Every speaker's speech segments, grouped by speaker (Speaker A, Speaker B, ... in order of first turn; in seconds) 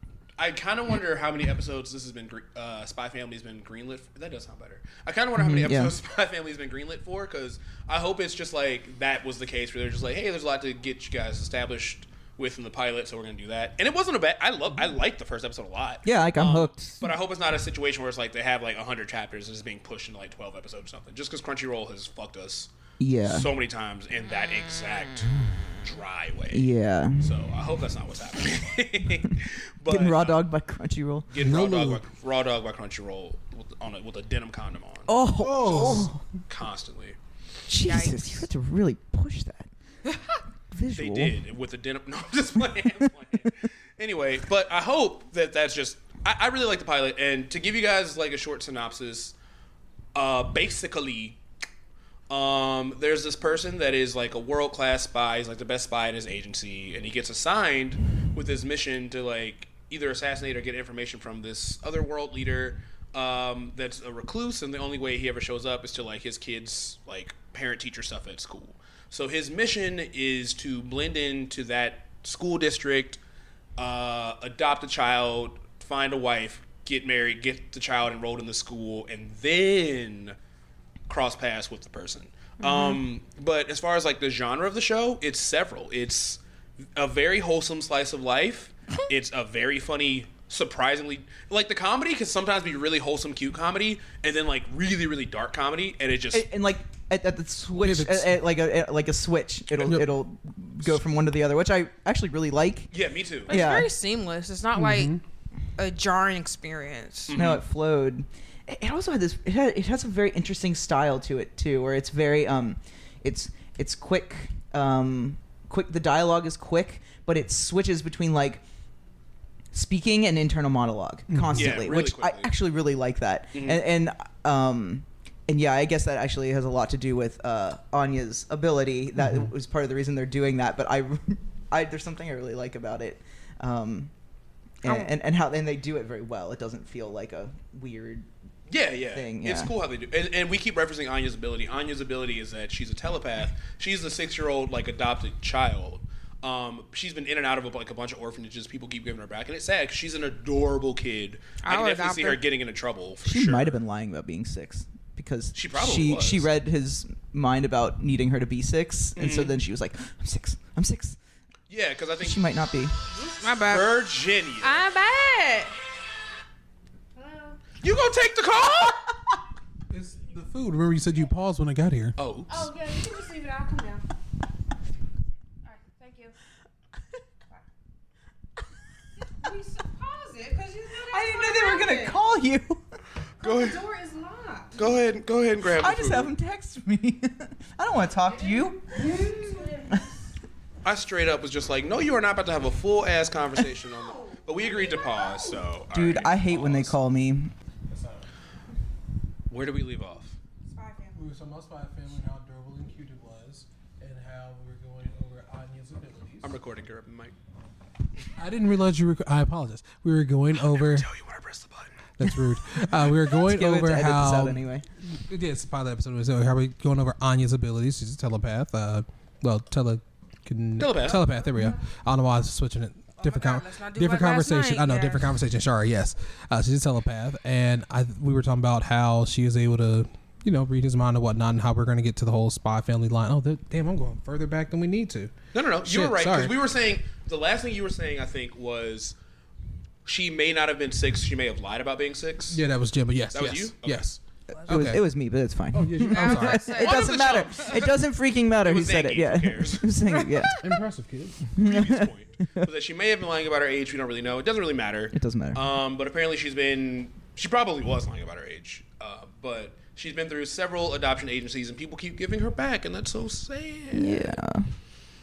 Speaker A: 0.4-22.7, 23.2-30.4, 31.3-35.1, 36.5-37.2, 40.9-49.4, 50.1-51.4, 52.3-73.2, 73.8-80.4, 81.1-86.4, 87.0-96.5, 102.9-103.6, 107.3-107.6, 121.5-122.5, 123.5-123.8, 138.7-153.8, 155.5-156.5, 159.2-159.6, 161.7-162.5, 163.6-164.8, 167.8-169.0, 172.2-172.7, 183.4-183.8, 184.8-186.3, 190.8-197.0, 199.5-200.4, 206.4-207.3, 210.6-211.9, 220.8-221.2, 235.5-239.2, 240.1-242.6, 243.3-244.1, 246.7-248.0, 248.6-250.1, 251.6-264.4
Speaker B: 5.4-6.0, 16.1-17.0, 23.0-23.5, 26.5-27.3, 29.9-31.3, 35.1-36.2, 37.7-39.7, 40.7-41.4, 96.3-102.9, 103.5-103.9, 107.3-118.6, 119.7-134.1, 134.8-138.3, 139.1-139.7, 153.2-161.2, 162.2-162.9, 181.1-182.8, 185.7-189.3, 195.9-197.5, 213.3-214.8, 244.7-250.6, 251.6-252.7, 255.1-255.6, 263.9-264.7
Speaker C: 31.4-32.0, 35.4-36.1, 97.8-98.4, 99.8-100.1, 104.8-105.2, 121.3-121.8, 129.2-129.5, 169.9-172.2, 197.9-198.3, 201.2-206.5, 208.4-211.1, 212.2-235.3, 235.8-236.6, 242.5-245.1, 245.7-246.8, 250.6-251.5
Speaker D: 37.8-38.5, 103.5-105.2, 105.8-107.4, 134.8-135.1, 151.6-152.4, 163.3-164.0, 164.6-165.8, 167.2-167.6, 172.5-174.0, 175.7-176.3, 179.3-182.2, 183.4-184.8, 188.5-190.1, 194.0-194.4, 195.1-195.5, 200.7-201.2, 223.2-225.3, 246.1-247.4, 250.3-250.6